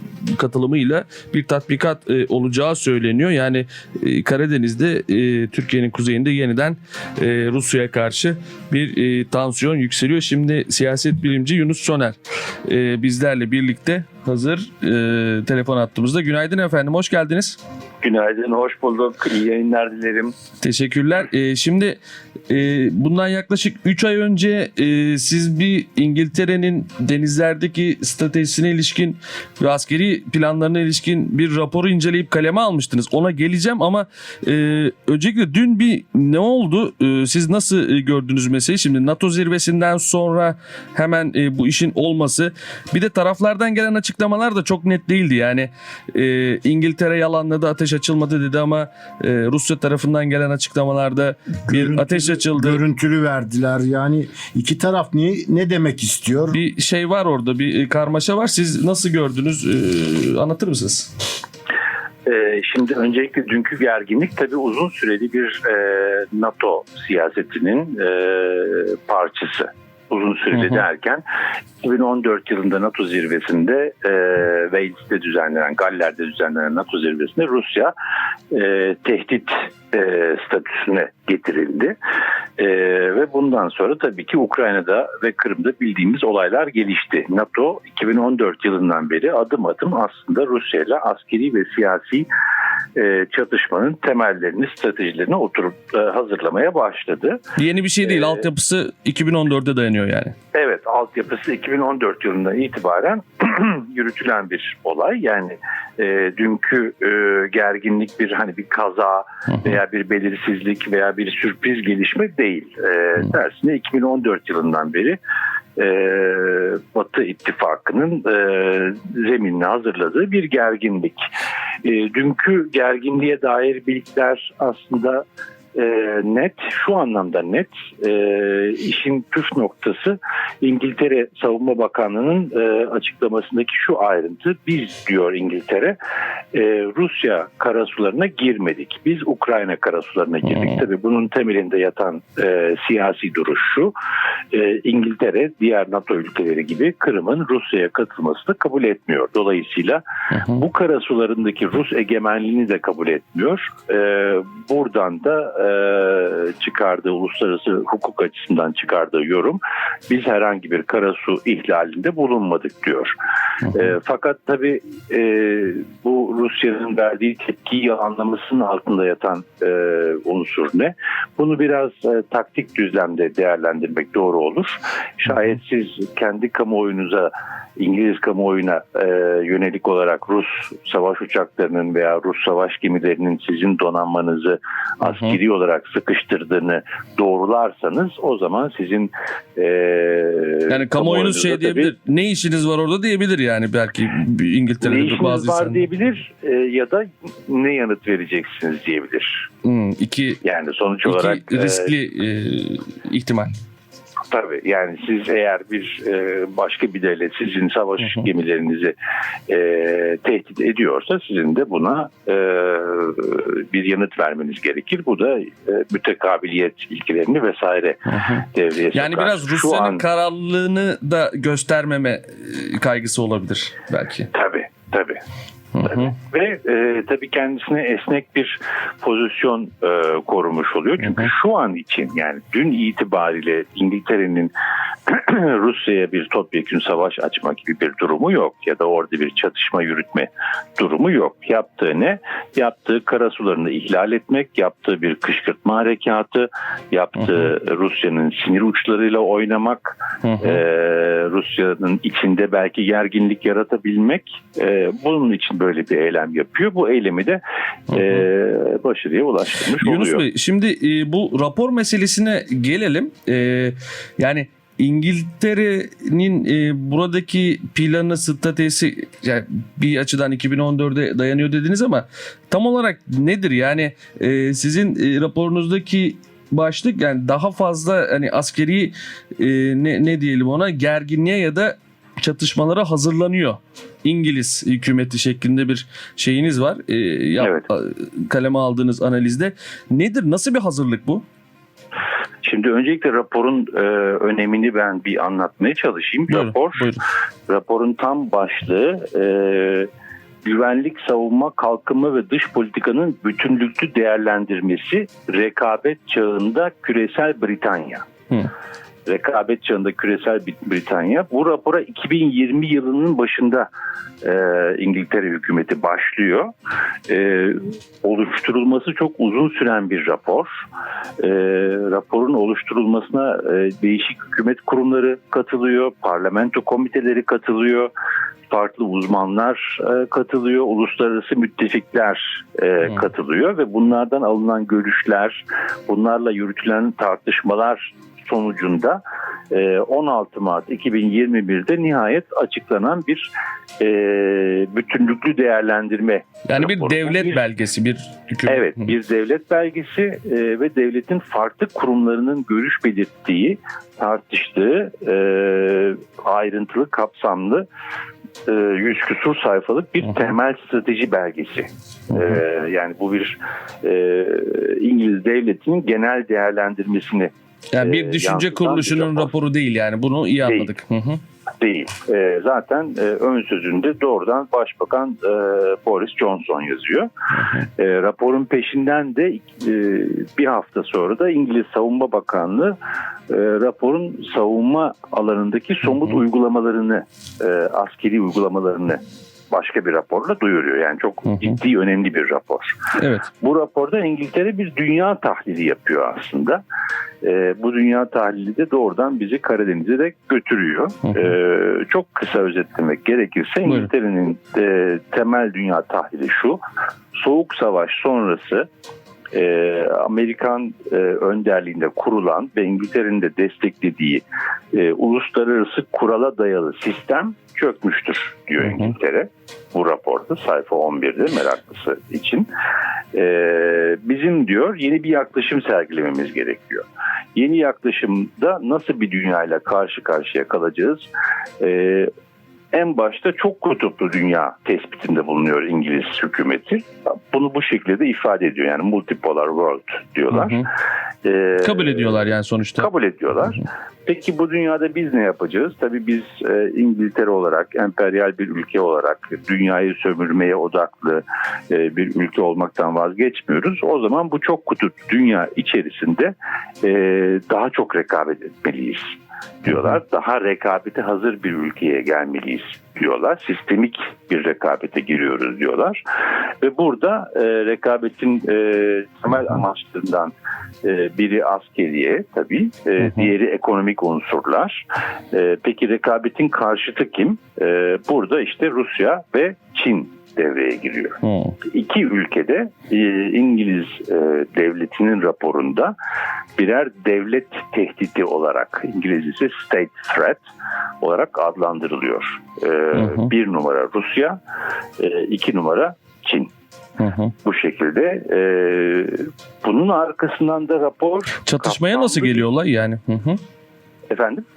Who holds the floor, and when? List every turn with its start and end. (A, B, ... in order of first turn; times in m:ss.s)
0:00.3-0:17.6 A
0:18.0-0:20.3 B
0:20.6-0:52.8 A
0:51.7-0:56.6 C
0:56.5-1:01.1 A
1:02.2-1:11.2 B
1:11.8-1:17.9 B
1:18.5-1:21.9 B
1:22.6-1:32.3 B
1:32.9-1:37.4 B
1:37.6-1:40.3 A
1:38.0-1:38.4 B
1:40.5-1:55.2 B
1:55.8-2:01.3 B
2:01.8-2:05.2 B
2:05.7-2:16.0 B
2:16.5-2:23.9 B
2:24.5-2:43.1 B
2:30.3-2:30.6 A
2:43.7-3:11.9 B
3:05.0-3:05.4 A
3:10.7-3:15.9 A
3:14.8-3:19.5 B
3:19.6-3:20.4 A
3:20.4-3:21.9 B
3:21.0-3:23.5 A
3:24.3-3:28.9 B
3:29.5-3:38.0 B
3:38.1-3:44.3 A
3:38.5-3:40.0 B
3:44.3-3:45.2 B
3:45.7-3:46.1 A
3:45.8-3:54.5 B
3:51.0-3:51.3 A
3:55.1-4:20.2 B
4:10.2-4:10.6 A
4:19.8-4:51.2 A
4:52.4-4:56.9 B
4:56.3-4:57.0 A
4:57.5-4:59.9 B
5:00.4-5:08.1 B
5:09.0-5:13.7 B
5:14.2-5:16.5 B
5:17.1-5:20.5 B
5:21.2-5:27.9 B
5:28.5-5:43.3 B
5:43.8-5:47.4 B
5:46.5-5:48.8 A
5:48.5-5:57.7 B
5:58.4-6:09.3 B
6:07.7-6:11.2 A
6:10.4-6:10.7 B
6:11.6-6:17.1 B
6:17.3-6:17.7 A
6:17.8-6:22.8 B
6:23.3-6:29.0 B
6:29.5-6:32.8 B
6:33.0-6:33.3 A
6:33.4-6:36.6 B
6:37.2-6:46.6 B
6:47.1-6:48.7 B
6:49.3-7:02.5 B
7:03.1-7:11.1 B
7:11.6-7:12.1 B
7:12.7-7:20.6 B
7:20.3-7:20.6 A
7:21.2-7:22.2 B
7:21.6-7:22.9 A
7:22.8-7:46.0 B
7:46.6-7:50.3 B
7:50.8-8:05.9 B
7:53.0-7:53.3 A
8:01.2-8:01.5 A
8:06.6-8:10.4 B
8:11.0-8:14.4 B
8:15.0-8:16.5 B
8:17.0-8:17.3 A
8:17.4-8:22.4 B
8:21.4-8:23.4 A
8:24.1-8:24.4 B